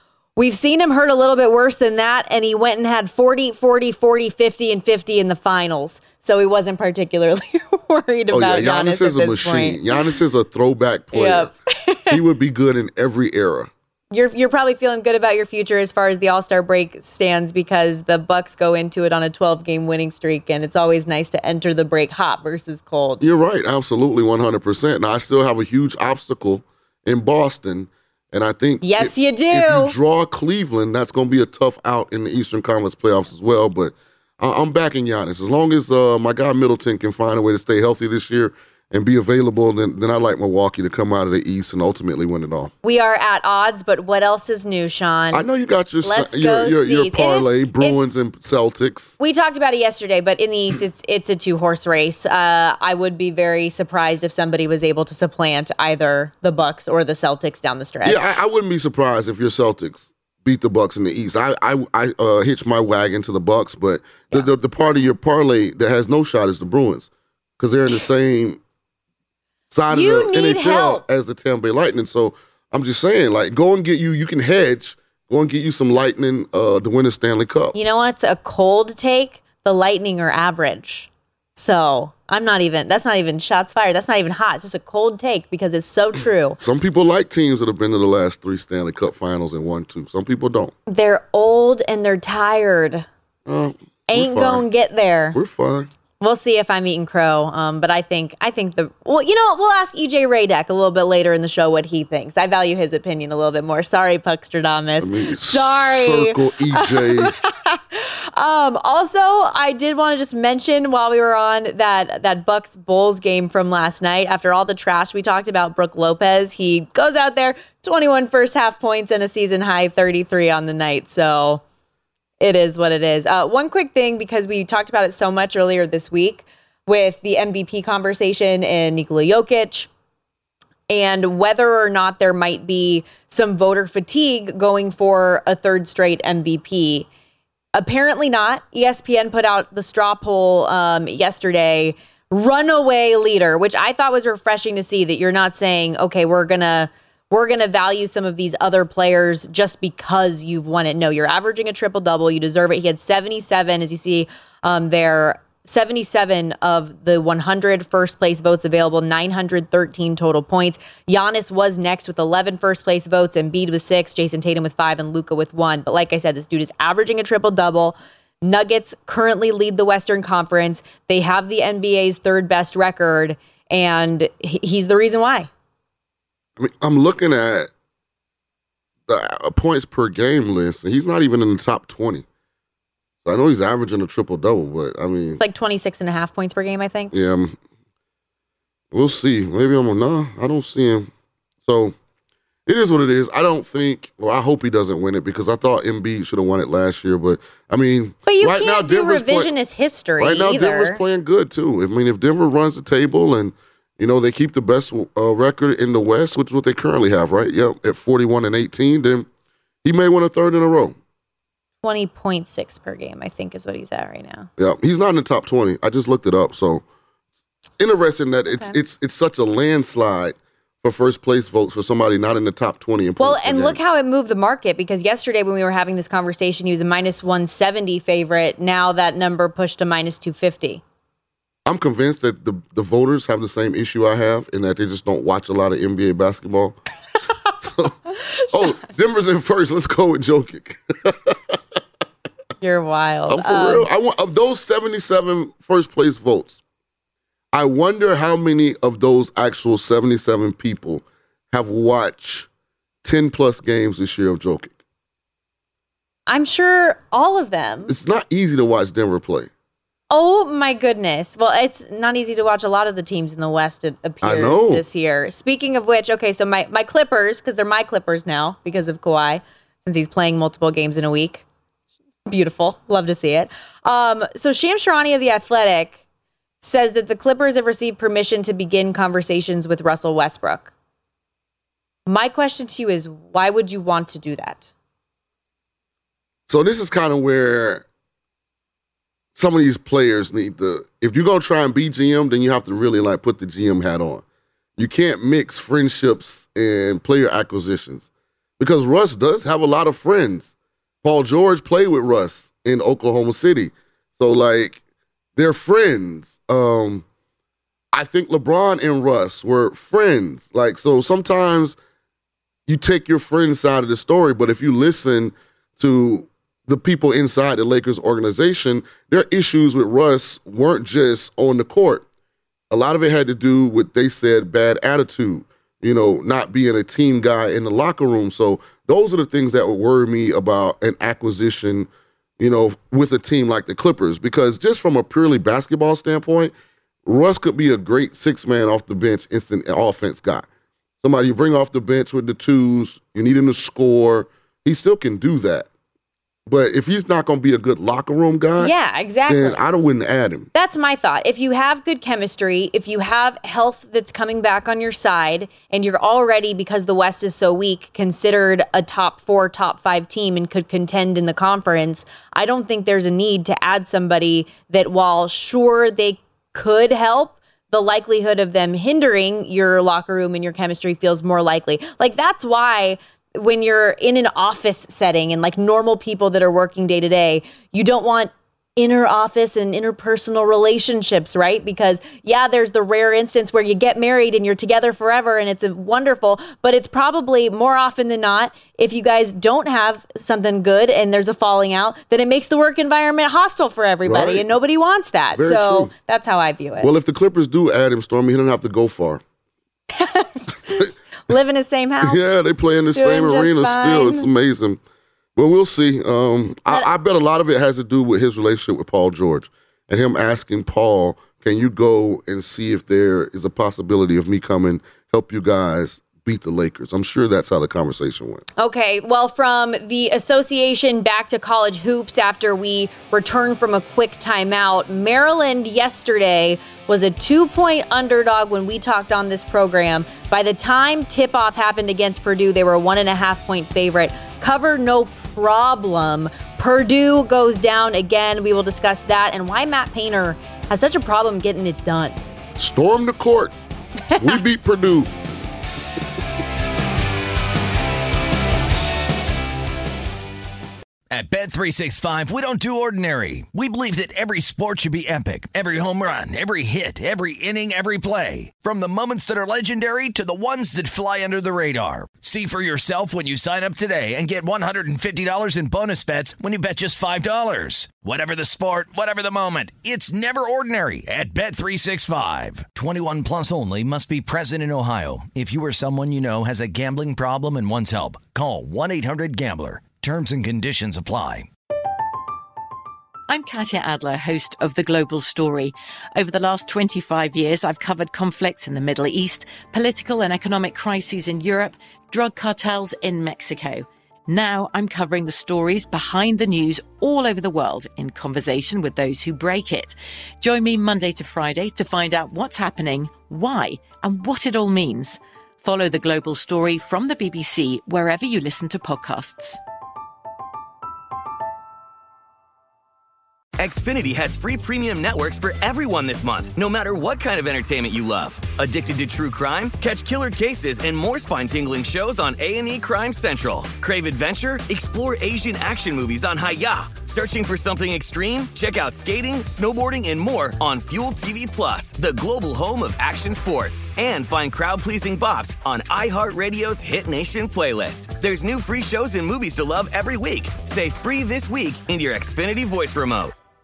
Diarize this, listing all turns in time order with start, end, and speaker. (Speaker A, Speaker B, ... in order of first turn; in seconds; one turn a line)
Speaker A: 0.4-10.1
Speaker B: 8.3-11.5
Speaker A: 11.1-12.2
Speaker B: 12.1-13.7
Speaker A: 14.1-23.2
Speaker B: 23.2-42.7
Speaker A: 28.8-29.9
Speaker A: 42.8-45.4
Speaker B: 45.3-49.2
Speaker A: 46.0-48.1
Speaker A: 49.2-58.2
Speaker B: 58.0-68.6
Speaker B: 69.7-77.8
Speaker A: 69.9-71.0
Speaker A: 77.7-86.6
Speaker B: 86.6-90.7
Speaker A: 90.9-93.1
Speaker B: 93.5-94.7
Speaker A: 94.1-95.4
Speaker B: 95.3-95.9
Speaker A: 96.2-121.6
Speaker B: 105.0-107.3
Speaker A: 122.4-129.9
Speaker A: 130.9-137.1
Speaker A: 137.8-175.5
Speaker B: 176.6-177.7
Speaker B: 179.1-182.2
Speaker B: 183.2-185.4
Speaker A: 185.4-187.1
Speaker B: 187.1-187.6
Speaker B: 188.9-191.1
Speaker B: 191.7-191.9
Speaker B: 192.7-199.5
Speaker A: 198.3-201.0
Speaker B: 200.2-209.3
Speaker B: 209.8-211.0
Speaker A: 211.8-214.5
Speaker B: 214.6-216.8
Speaker B: 217.8-223.8
Speaker A: 223.2-230.8
Speaker B: 231.7-236.8
Speaker B: 237.6-237.9
Speaker B: 238.5-241.6
Speaker A: 242.6-243.9
Speaker B: 243.3-246.6
Speaker B: 247.5-252.5
Speaker B: 253.0-254.8
Speaker A: 256.3-257.9
Speaker B: 257.9-259.5
Speaker A: 260.1-271.4
Speaker B: 264.2-264.8
Speaker A: 272.3-276.0
Speaker A: 276.6-280.7
Speaker A: 282.1-284.7
Speaker B: 286.5-287.9
Speaker B: 289.4-294.2
Speaker B: 294.8-300.5
Speaker B: 301.0-304.8
Speaker B: 305.4-307.1
Speaker B: 307.9-311.8
Speaker B: 312.7-322.1
Speaker B: 322.7-336.5
Speaker B: 337.1-340.5
Speaker B: 341.0-345.7
Speaker B: 346.5-348.7
Speaker A: 348.6-349.6
Speaker B: 349.3-350.5
Speaker A: 350.5-396.9
Speaker B: 394.1-394.5
Speaker B: 395.3-395.9
Speaker B: 396.8-399.2
Speaker A: 399.9-402.2
Speaker B: 400.6-400.9
Speaker B: 402.0-404.8
Speaker A: 402.9-404.3
Speaker B: 405.4-418.5
Speaker A: 418.6-442.2
Speaker B: 442.6-443.6
Speaker B: 444.2-445.1
Speaker C: 451.1-481.5
Speaker D: 483.3-509.6
Speaker E: 513.6-543.3